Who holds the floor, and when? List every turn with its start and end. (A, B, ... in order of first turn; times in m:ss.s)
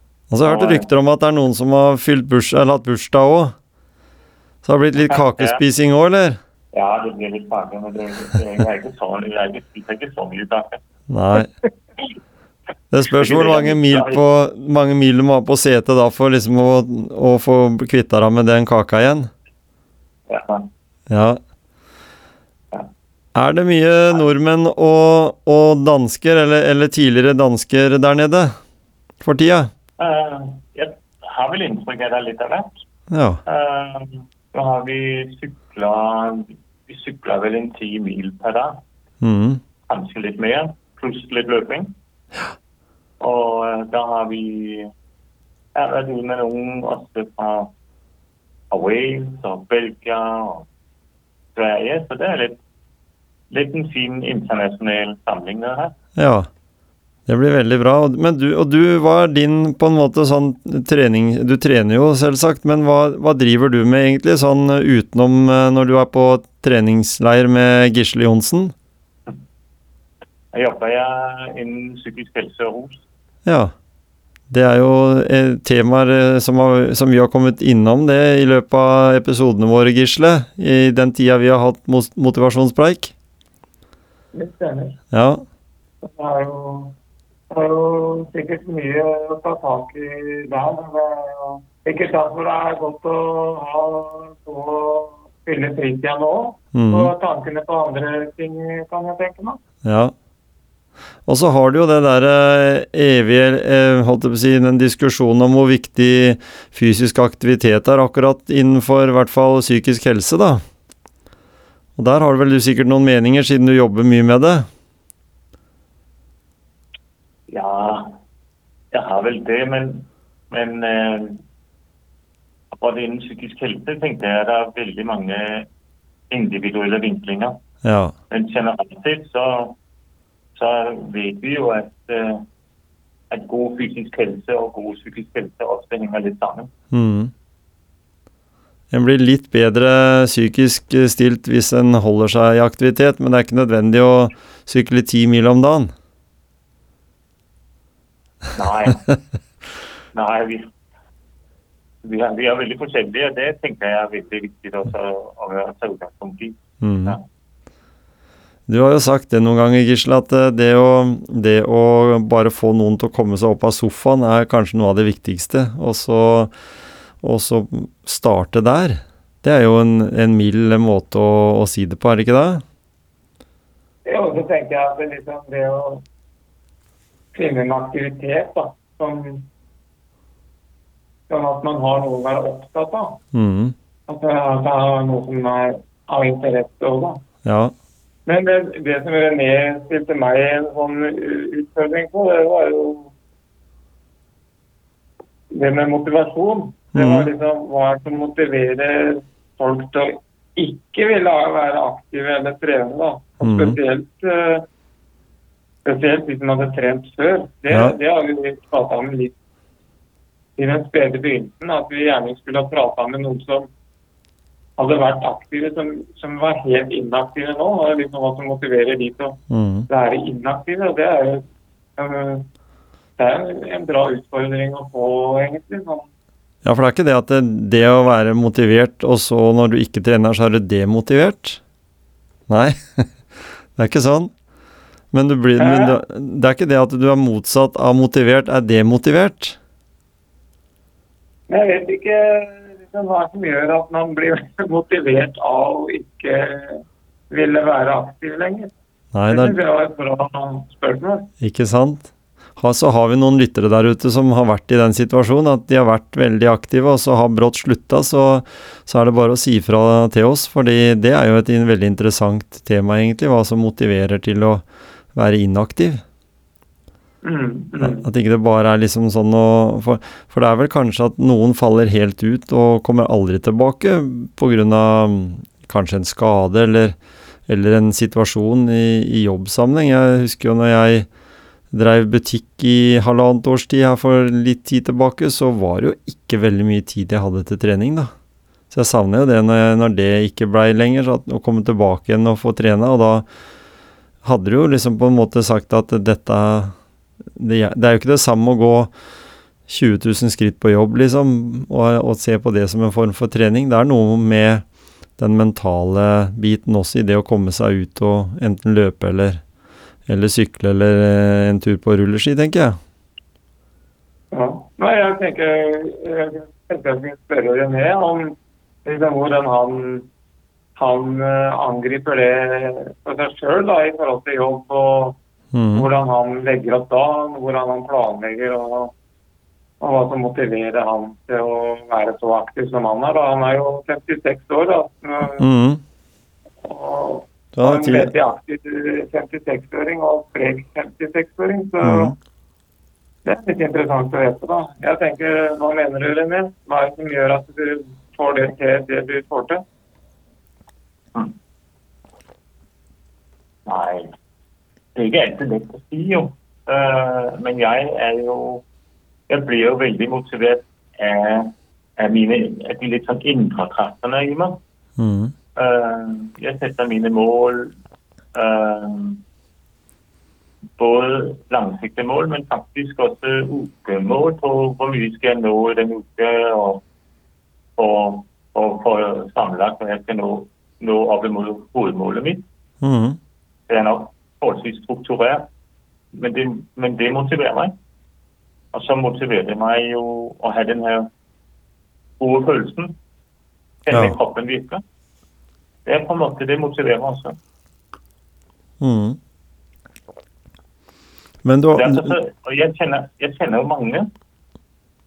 0:00.3-0:03.5 A
0:00.4-0:00.9 B
0:04.6-0:06.4 A
0:05.0-0:05.6 B
0:06.7-0:10.8 B
0:11.1-0:11.5 A
0:12.9-0:19.3 A
0:13.0-0:14.2 B
0:20.3-0:20.7 B
0:21.1-0:21.4 A
0:23.3-0:28.5 A
0:29.2-0:29.7 A
0:30.0-0:32.8 B
0:33.1-0:33.4 A
0:33.4-0:38.8 B
0:39.2-0:39.6 A
0:39.9-0:41.9 B
0:43.2-0:44.9 B
0:45.7-0:47.7 B
0:48.7-0:50.7 B
0:51.5-0:52.6 B
0:53.5-0:55.9 B
0:56.2-0:56.5 A
0:57.3-1:08.7 A
1:10.5-1:13.0 B
1:13.4-1:13.7 A
1:14.5-1:23.1 A
1:24.3-1:25.0 C
1:25.1-1:25.4 A
1:26.0-1:26.9 C
1:27.5-1:39.6 C
1:36.7-1:37.1 A
1:39.8-1:40.1 A
1:41.2-1:50.6 A
1:52.0-1:54.7 A
1:57.5-1:58.1 B
1:58.9-2:01.4 B
2:02.8-2:05.7 B
2:06.3-2:07.6 B
2:07.8-2:08.1 A
2:08.3-2:09.8 B
2:10.6-2:12.4 B
2:13.3-2:16.7 B
2:16.9-2:17.3 A
2:18.9-2:25.9 A
2:28.5-2:29.0 B
2:30.1-2:30.7 B
2:32.0-2:37.2 B
2:36.8-2:37.2 A
2:38.7-2:46.5 A
2:47.2-2:52.6 A
2:54.0-2:56.0 C
2:57.3-2:59.5 C
3:01.3-3:03.2 C
3:03.3-3:03.7 A
3:04.1-3:07.2 C
3:07.4-3:07.7 A
3:08.2-3:13.1 C
3:15.5-3:24.7 C
3:16.9-3:17.3 A
3:23.4-3:23.8 A
3:25.8-3:29.3 C
3:30.6-3:33.7 C
3:34.8-3:41.4 C
3:39.5-3:39.9 A
3:42.0-3:42.4 C
3:43.2-3:46.1 C
3:46.6-3:51.6 A
3:52.5-3:54.3 A
3:55.1-3:59.6 A
3:55.6-3:56.0 C
4:01.5-4:08.7 C
4:09.1-4:09.6 A
4:09.3-4:11.3 C
4:11.4-4:24.6 A
4:25.1-4:26.0 A
4:27.2-4:28.1 C
4:27.8-4:37.0 A
4:37.5-4:41.1 A
4:41.7-4:48.1 A
4:48.7-4:53.2 A
4:54.2-4:56.7 A
4:57.4-4:58.9 A
4:59.7-5:04.6 A
5:05.2-5:09.4 A
5:10.1-5:12.8 A
5:14.3-5:20.1 C
5:20.8-5:25.2 C
5:25.5-5:25.9 A
5:25.7-5:28.9 C
5:29.8-5:35.4 C
5:35.4-5:35.8 A
5:36.6-5:42.1 C
5:37.5-5:38.1 A
5:41.8-5:42.1 A
5:43.2-5:49.6 C
5:53.6-5:54.1 B
5:55.0-5:58.6 B
5:59.3-6:04.6 B
6:05.0-6:05.3 A
6:05.6-6:07.7 B
6:08.3-6:09.2 B
6:10.8-6:16.8 B
6:17.8-6:22.4 B
6:22.8-6:23.2 A
6:23.7-6:25.5 B
6:26.1-6:27.7 B
6:28.7-6:31.1 B
6:32.2-6:33.0 B
6:33.8-6:34.8 B
6:33.9-6:34.2 A
6:35.8-6:37.4 B
6:38.8-6:39.2 A
6:41.4-6:42.1 A
6:41.8-6:44.1 B